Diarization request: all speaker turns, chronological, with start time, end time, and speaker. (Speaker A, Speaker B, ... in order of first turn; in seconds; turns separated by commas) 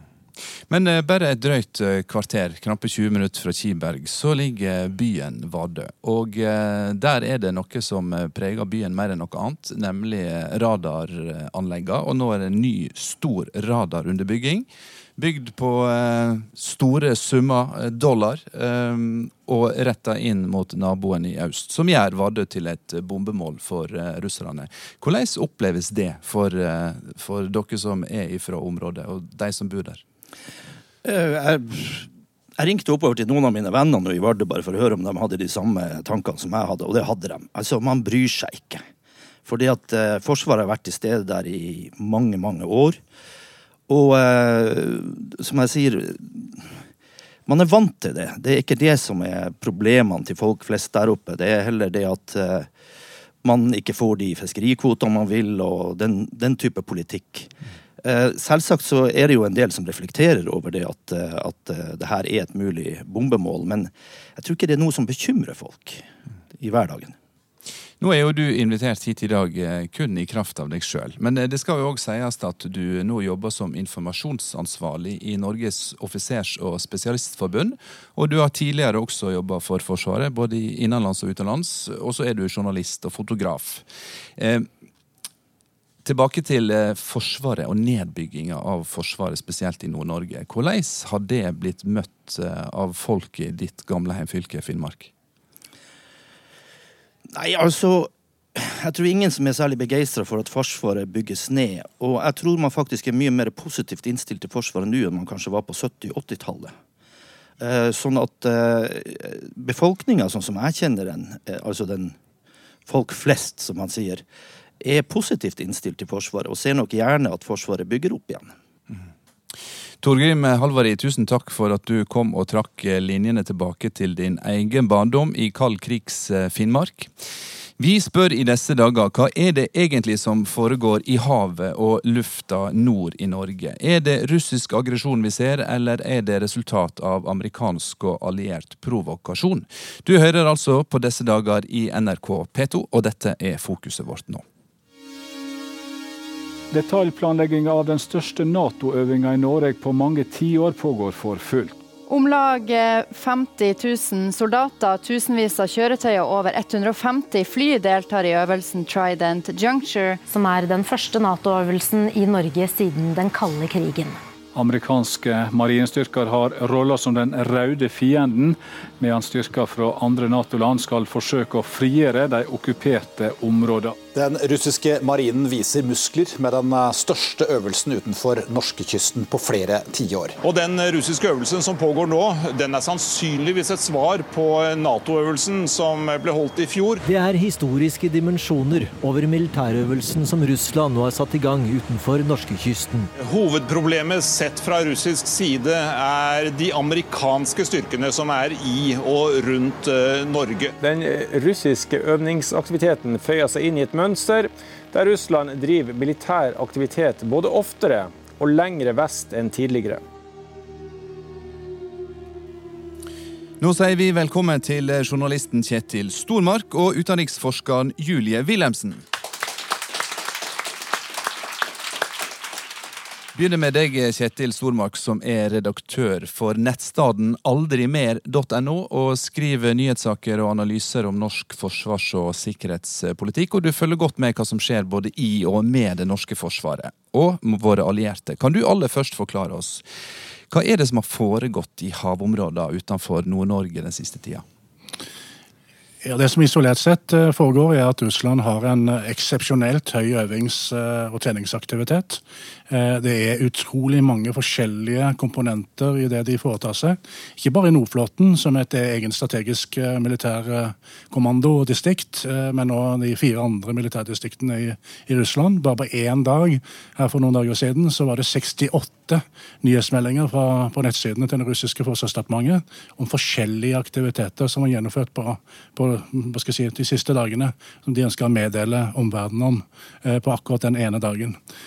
Speaker A: 0.7-30.0, Speaker B: 31.0-38.8, Speaker B: 39.5-43.0, Speaker B: 43.9-46.7, Speaker B: 47.5-52.7, Speaker B: 53.4-66.0, Speaker B: 66.5-67.2, Speaker A: 68.0-83.8, Speaker A: 84.4-84.7, Speaker A: 86.0-95.1, Speaker B: 97.3-106.7, Speaker B: 107.6-112.2, Speaker B: 112.8-114.2, Speaker B: 114.8-118.5, Speaker A: 120.0-127.1, Speaker A: 127.8-144.4, Speaker C: 146.7-151.8, Speaker D: 152.1-160.2, Speaker E: 160.3-164.2, Speaker C: 164.5-174.0, Speaker F: 174.1-180.4, Speaker G: 180.4-187.0, Speaker H: 187.0-193.1, Speaker G: 193.2-200.8, Speaker I: 200.8-210.0, Speaker H: 204.9-205.3, Speaker H: 207.1-209.5, Speaker A: 213.6-219.0, Speaker A: 223.3-239.8, Speaker A: 240.5-244.4, Speaker J: 246.0-281.4